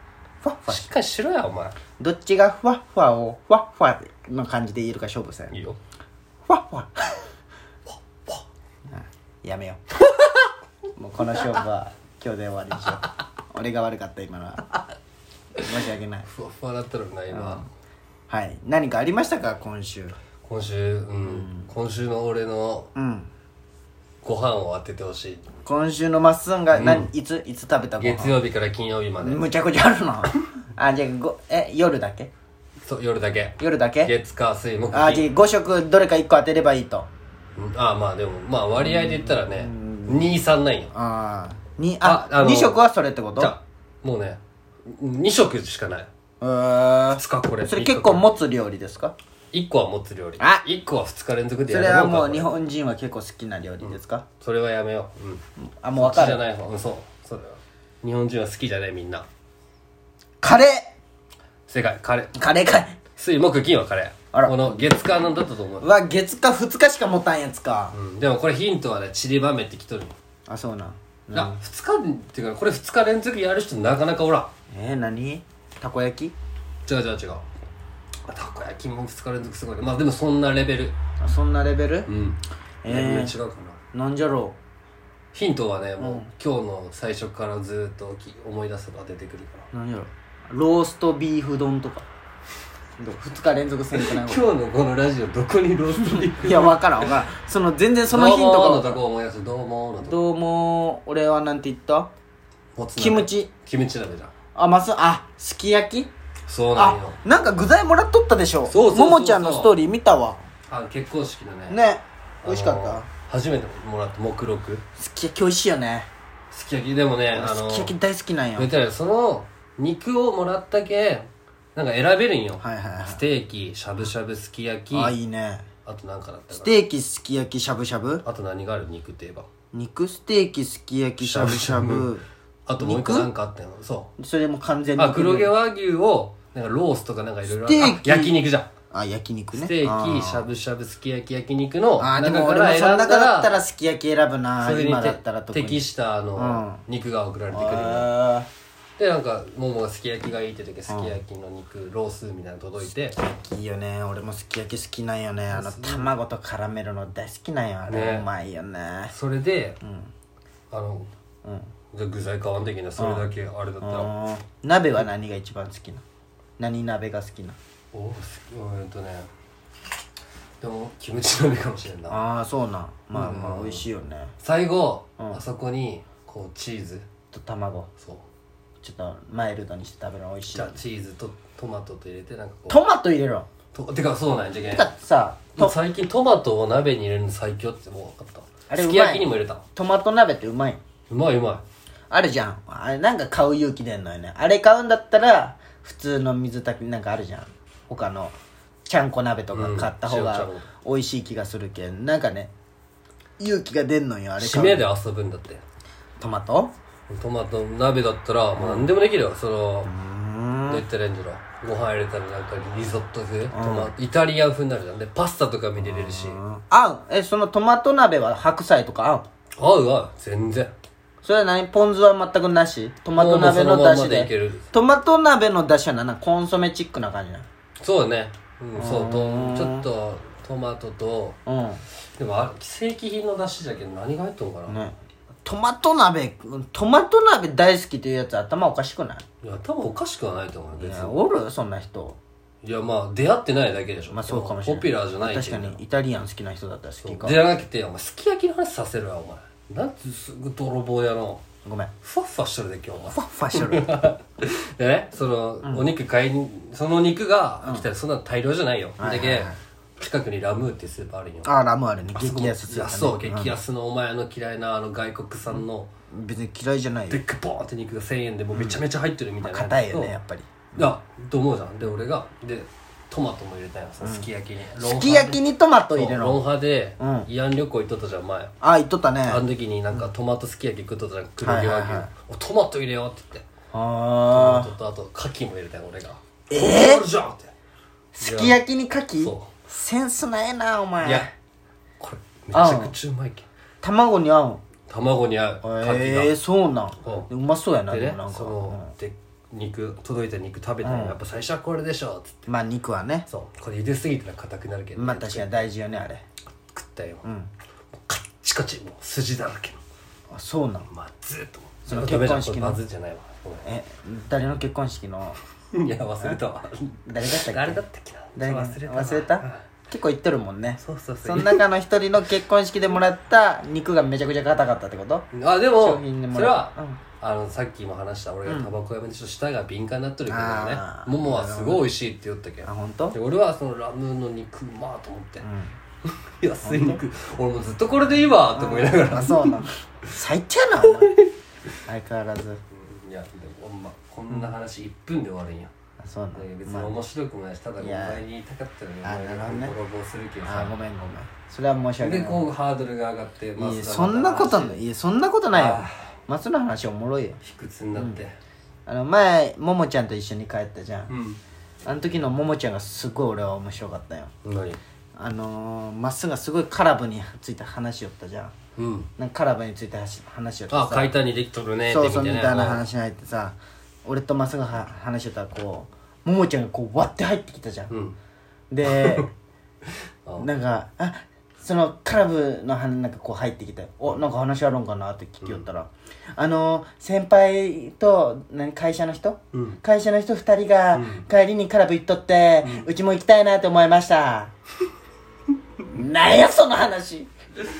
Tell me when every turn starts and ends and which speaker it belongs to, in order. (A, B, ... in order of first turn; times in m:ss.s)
0:00.4-0:00.9 A
0:00.7-0:01.8 B
0:02.0-0:05.5 A
0:05.5-0:05.8 B
0:06.4-0:07.3 A
0:08.9-0:09.8 A
0:11.0-0:14.7 A
0:15.6-0:16.3 A
0:16.3-0:17.7 B
0:17.3-0:17.6 A
0:18.3-0:20.2 A
0:20.4-0:22.9 B
0:21.2-0:21.7 A
0:23.0-0:23.3 A
0:24.2-0:25.4 B
0:25.6-0:28.4 A
0:26.7-0:27.1 B
0:28.0-0:29.4 B
0:29.2-0:32.3 A
0:32.8-0:35.3 B
0:33.6-0:34.1 A
0:34.9-0:37.1 A
0:37.6-0:40.9 B
0:38.8-0:40.4 A
0:40.9-0:43.6 A
0:42.0-0:42.8 B
0:43.4-0:46.1 B
0:46.4-0:49.1 A
0:47.2-0:48.3 B
0:49.5-0:52.5 B
0:50.4-0:50.6 A
0:51.7-0:54.2 A
0:53.8-0:55.4 B
0:55.8-0:56.4 A
0:56.0-0:59.3 B
1:00.4-1:00.9 A
1:01.7-1:02.4 B
1:02.4-1:03.0 A
1:03.2-1:05.8 B
1:04.3-1:04.8 A
1:05.8-1:08.0 A
1:07.9-1:10.1 B
1:10.5-1:11.6 A
1:11.3-1:14.5 B
1:14.7-1:16.3 A
1:16.8-1:17.4 B
1:18.3-1:21.0 B
1:21.2-1:22.1 A
1:22.1-1:23.8 B
1:22.8-1:23.4 A
1:23.9-1:24.6 A
1:25.3-1:29.7 B
1:26.0-1:26.3 A
1:29.7-1:32.0 A
1:33.0-1:34.5 A
1:33.9-1:37.1 B
1:36.1-1:39.0 A
1:38.1-1:40.2 B
1:40.0-1:42.1 A
1:42.8-1:44.3 B
1:43.0-1:43.5 A
1:44.6-1:46.1 A
1:46.5-1:47.2 B
1:46.7-1:50.4 A
1:48.7-1:49.7 B
1:50.7-1:51.8 B
1:51.7-1:53.1 A
1:52.4-1:54.8 B
1:55.0-1:56.1 A
1:56.5-1:57.9 B
1:57.3-1:58.7 A
1:58.6-2:05.1 B
2:02.6-2:03.2 A
2:04.9-2:05.6 A
2:05.8-2:06.8 B
2:06.5-2:08.2 A
2:08.2-2:09.5 B
2:09.7-2:12.2 A
2:11.2-2:12.1 B
2:12.7-2:14.1 B
2:12.8-2:13.3 A
2:14.2-2:15.5 A
2:15.0-2:18.7 B
2:17.4-2:20.5 A
2:19.5-2:23.5 B
2:22.0-2:26.8 A
2:24.6-2:28.1 B
2:27.5-2:28.5 A
2:29.0-2:33.2 B
2:30.9-2:31.2 A
2:33.2-2:39.1 A
2:35.5-2:36.1 B
2:37.9-2:38.3 B
2:39.1-2:39.8 B
2:39.8-2:40.1 A
2:40.7-2:41.1 B
2:41.9-2:44.1 B
2:43.0-2:43.3 A
2:43.8-2:46.0 A
2:46.6-2:47.6 A
2:47.9-2:49.3 B
2:50.6-2:52.2 B
2:52.1-2:54.3 A
2:53.1-2:53.8 B
2:54.4-2:57.0 B
2:57.3-2:57.9 A
2:58.0-2:58.2 B
2:58.8-3:00.8 A
3:00.5-3:02.8 B
3:02.7-3:03.5 A
3:03.7-3:04.9 B
3:04.6-3:05.7 A
3:05.5-3:09.6 B
3:08.7-3:10.8 A
3:11.1-3:11.6 B
3:12.1-3:18.3 A
3:18.9-3:22.5 A
3:19.5-3:20.7 B
3:23.4-3:24.8 A
3:24.4-3:25.6 B
3:26.2-3:26.7 A
3:27.1-3:29.9 B
3:28.6-3:28.9 A
3:29.8-3:30.8 A
3:30.7-3:36.4 B
3:33.5-3:33.9 A
3:35.8-3:39.3 A
3:39.6-3:40.7 B
3:41.2-3:47.5 A
3:43.2-3:44.7 B
3:47.8-3:51.4 B
3:48.7-3:49.9 A
3:51.4-3:51.8 A
3:52.2-3:54.8 B
3:54.7-3:59.2 A
3:59.4-4:01.2 B
4:00.8-4:02.2 A
4:02.6-4:05.8 B
4:04.1-4:07.4 A
4:07.0-4:11.4 B
4:11.6-4:11.9 A
4:12.0-4:21.5 B
4:13.1-4:14.0 A
4:15.6-4:15.9 A
4:17.6-4:17.9 A
4:19.0-4:19.6 A
4:21.4-4:23.6 A
4:22.1-4:25.9 B
4:26.1-4:27.2 A
4:27.1-4:30.2 B
4:28.5-4:28.8 A
4:29.4-4:30.9 A
4:30.7-4:35.4 B
4:34.0-4:36.4 A
4:35.9-4:38.5 B
4:37.0-4:37.3 A
4:38.6-4:40.1 A
4:39.3-4:43.4 B
4:41.4-4:42.1 A
4:43.7-4:44.7 A
4:44.3-4:47.5 B
4:46.5-4:47.1 A
4:48.1-4:51.3 A
4:48.2-4:48.6 B
4:49.2-4:49.5 B
4:51.0-4:51.3 B
4:52.0-4:53.5 B
4:52.5-4:52.9 A
4:53.8-4:54.6 A
4:54.9-4:56.4 B
4:55.6-4:58.9 A
4:57.0-4:57.3 B
4:57.9-5:02.5 B
5:00.8-5:01.2 A
5:02.5-5:03.3 A
5:03.3-5:05.5 B
5:05.0-5:06.2 A
5:06.7-5:07.2 B
5:07.2-5:07.5 A
5:08.1-5:09.8 B
5:10.3-5:10.9 A
5:10.9-5:13.6 B
5:11.8-5:12.8 A
5:13.6-5:15.4 A
5:15.7-5:19.6 B
5:17.1-5:17.8 A
5:18.4-5:27.0 A
5:20.8-5:21.6 B
5:25.3-5:35.5 B
5:28.4-5:28.7 A
5:30.3-5:31.9 A
5:32.6-5:33.2 A
5:35.4-5:35.7 A
5:36.0-5:39.6 B
5:36.6-5:37.0 A
5:38.5-5:41.1 A
5:40.8-5:41.3 B
5:41.8-5:42.6 A
5:42.7-5:45.7 B
5:44.3-5:44.6 A
5:46.0-5:47.0 A
5:46.3-5:50.7 B
5:47.8-5:48.2 A
5:49.0-5:49.7 A
5:50.4-5:52.5 A
5:52.0-5:54.8 B
5:53.6-5:57.4 A
5:55.5-5:56.1 B
5:57.4-5:58.4 B
5:57.9-5:58.2 A
5:58.8-6:01.1 A
6:01.1-6:01.4 B
6:01.8-6:04.3 A
6:04.4-6:04.8 B
6:05.2-6:08.5 A
6:08.8-6:09.1 B
6:09.2-6:11.1 A
6:10.7-6:12.8 B
6:11.8-6:17.9 A
6:17.9-6:18.2 B
6:18.7-6:19.3 A
6:18.9-6:19.3 B
6:19.9-6:20.5 B
6:20.4-6:34.5 A
6:29.5-6:29.8 B
6:30.9-6:31.2 B
6:35.9-6:37.3 A